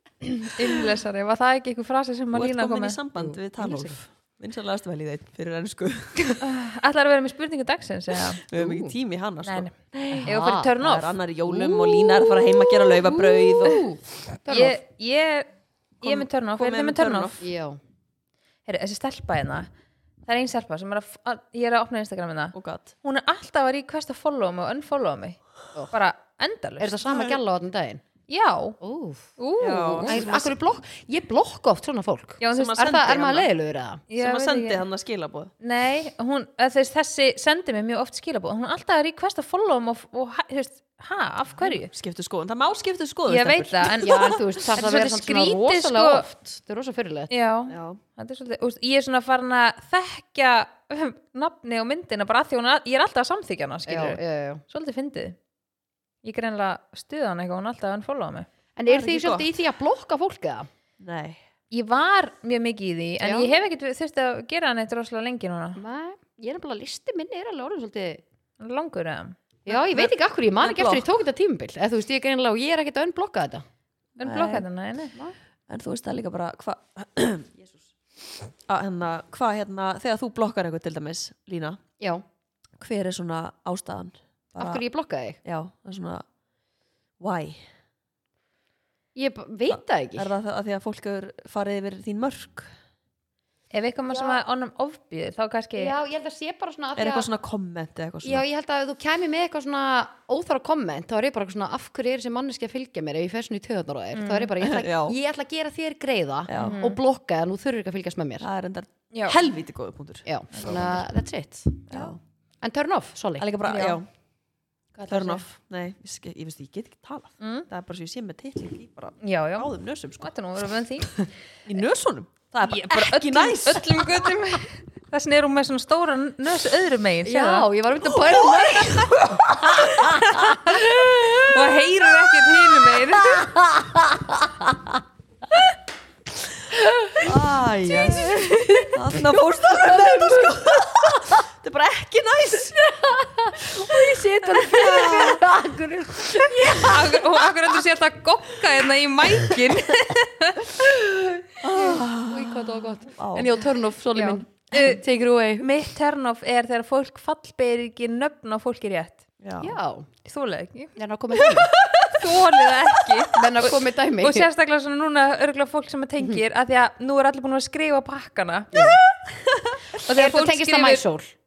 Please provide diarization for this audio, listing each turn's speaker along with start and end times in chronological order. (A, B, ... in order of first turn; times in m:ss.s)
0:00.3-0:03.0 A
0:02.3-0:06.4 B
0:03.2-0:04.0 C
0:06.4-0:08.4 A
0:08.4-0:13.9 B
0:08.5-0:09.0 C
0:09.4-0:09.7 A
0:10.1-0:10.8 C
0:10.2-0:11.2 A
0:11.5-0:14.8 C
0:14.5-0:15.5 A
0:16.0-0:17.4 A
0:16.0-0:17.4 B
0:17.4-0:17.8 C
0:18.7-0:19.7 A
0:20.3-0:25.4 A
0:22.5-0:22.9 B
0:25.9-0:27.0 A
0:26.8-0:28.0 C
0:27.0-0:27.4 B
0:28.3-0:28.8 A
0:28.8-0:29.3 C
0:29.4-0:30.2 A
0:29.6-0:30.5 B
0:30.0-0:34.0 C
0:32.4-0:32.9 A
0:32.5-0:33.5 B
0:34.1-0:34.8 A
0:34.2-0:35.5 B
0:35.6-0:41.9 A
0:41.6-0:44.4 B
0:43.3-0:46.3 A
0:44.0-0:47.3 C
0:47.3-0:55.4 A
0:47.7-0:48.0 B
0:53.9-0:54.6 C
0:56.2-0:58.5 A
0:58.8-1:00.7 C
0:58.9-0:59.5 B
1:01.0-1:01.4 B
1:01.7-1:05.8 A
1:03.2-1:03.5 C
1:05.8-1:08.2 C
1:08.6-1:09.4 A
1:09.7-1:13.6 C
1:09.7-1:11.1 B
1:14.2-1:15.2 A
1:14.2-1:14.6 B
1:15.7-1:17.8 B
1:18.7-1:21.8 B
1:22.0-1:22.2 C
1:22.8-1:24.8 B
1:24.6-1:25.4 C
1:25.4-1:26.2 B
1:27.2-1:27.6 B
1:29.2-1:30.3 C
1:29.7-1:32.7 B
1:33.7-1:35.9 A
1:34.1-1:34.4 C
1:35.8-1:37.3 C
1:37.0-1:38.4 B
1:38.2-1:48.5 C
1:44.1-1:44.5 A
1:44.6-1:45.2 B
1:46.5-1:46.8 B
1:46.6-1:47.0 A
1:48.4-1:50.3 B
1:50.3-1:53.5 C
1:50.5-1:50.8 A
1:51.9-1:52.2 B
1:53.4-1:54.0 B
1:53.7-1:54.0 A
1:55.0-1:55.4 C
1:55.1-2:00.3 B
1:57.4-1:57.7 A
1:59.2-1:59.7 A
2:00.2-2:01.2 A
2:01.7-2:04.3 B
2:02.7-2:07.7 A
2:07.2-2:11.5 C
2:08.1-2:10.3 B
2:09.9-2:13.5 A
2:13.4-2:14.9 C
2:16.7-2:17.4 C
2:17.2-2:22.8 B
2:17.9-2:21.4 C
2:18.4-2:18.9 A
2:22.7-2:27.6 C
2:24.6-2:25.5 B
2:26.5-2:30.9 A
2:31.6-2:33.5 B
2:32.3-2:35.7 C
2:34.2-2:35.0 A
2:35.6-2:39.2 A
2:39.4-2:39.8 B
2:39.6-2:40.1 C
2:40.2-2:49.0 A
2:41.0-2:41.7 C
2:43.2-2:44.5 C
2:48.7-2:49.0 C
2:50.0-2:51.0 A
2:50.0-2:51.3 C